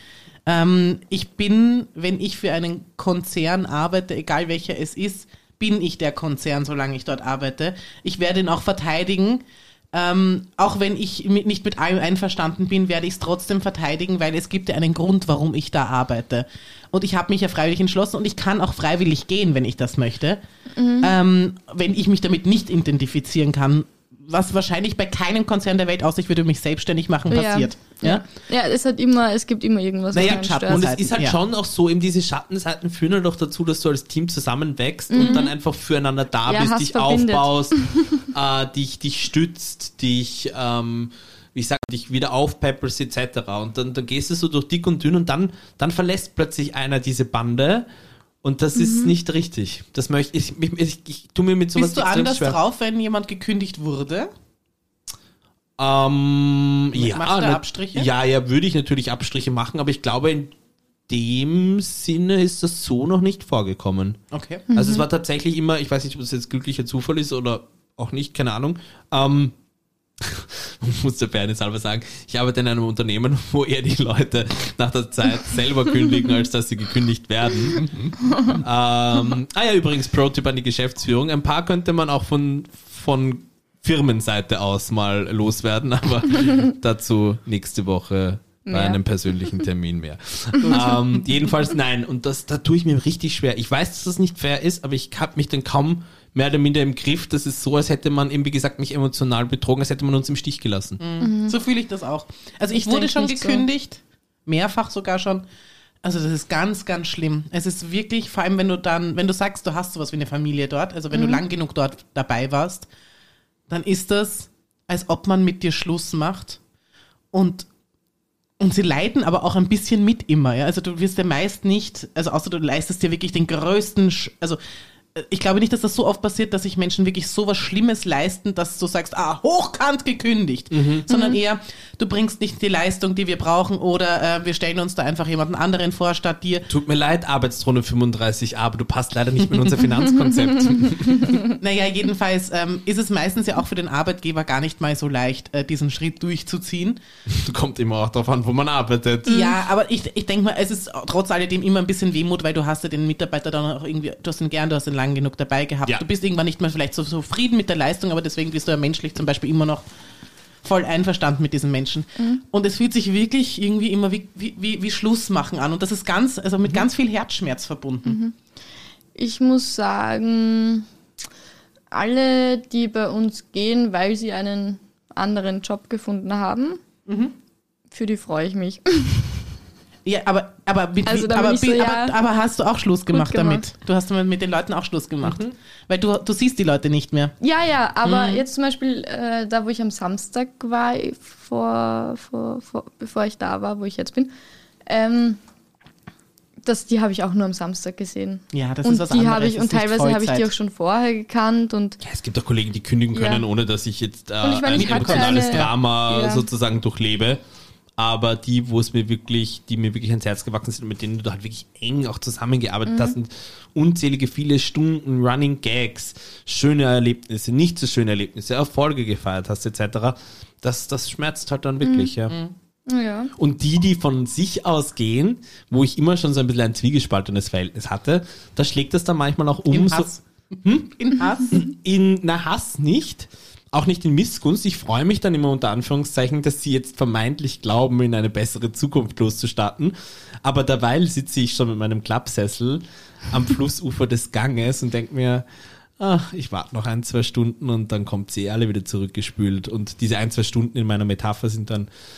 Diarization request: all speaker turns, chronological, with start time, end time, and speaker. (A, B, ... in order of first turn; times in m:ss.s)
0:00.5-0:20.4 A
0:20.8-0:21.1 B
0:21.0-0:28.2 A
0:27.3-0:30.9 B
0:30.1-0:47.9 C
0:30.1-0:31.4 A
0:35.1-0:35.5 B
0:35.2-0:35.4 A
0:36.5-0:38.1 B
0:48.4-0:52.6 C
0:48.8-0:49.1 B
0:51.8-0:54.3 A
0:55.8-1:00.5 C
0:56.9-0:58.1 A
1:01.1-1:04.2 C
1:04.3-1:04.7 A
1:04.7-1:05.0 B
1:04.7-1:09.5 C
1:10.2-1:41.0 C
1:28.7-1:29.0 B
1:30.6-1:31.2 A
1:41.0-1:45.4 A
1:41.2-1:41.6 B
1:42.7-1:43.6 B
1:46.0-1:52.9 A
1:51.1-1:51.4 B
1:53.7-1:56.6 A
1:57.3-1:57.7 A
1:58.6-2:04.6 A
2:05.1-2:16.7 A
2:10.7-2:11.1 C
2:11.1-2:11.4 B
2:16.7-2:21.4 C
2:21.6-2:27.0 A
2:27.3-2:29.6 C
2:29.3-2:39.8 A
2:40.6-2:48.2 A
2:48.0-2:48.4 B
2:49.2-2:50.9 B
2:51.9-2:56.8 B
2:57.1-2:57.4 A
2:57.9-2:59.4 B
3:00.0-3:07.3 A
3:01.1-3:02.2 B
3:03.1-3:03.6 B
3:05.2-3:05.5 C
3:07.4-3:14.3 B
3:08.0-3:08.4 A
3:14.9-3:15.4 B
3:16.6-3:22.0 B
3:18.5-3:20.5 A
3:22.0-3:27.4 C
3:23.1-3:23.4 B
3:24.4-3:26.5 B
3:24.7-3:25.8 A
3:28.0-3:42.4 C
3:32.9-3:33.2 B
3:41.8-3:42.1 B
3:42.9-3:43.3 B
3:43.4-3:50.1 C
3:49.7-3:51.6 A
3:50.6-3:50.9 C
3:51.4-4:05.4 C
4:06.0-4:11.9 C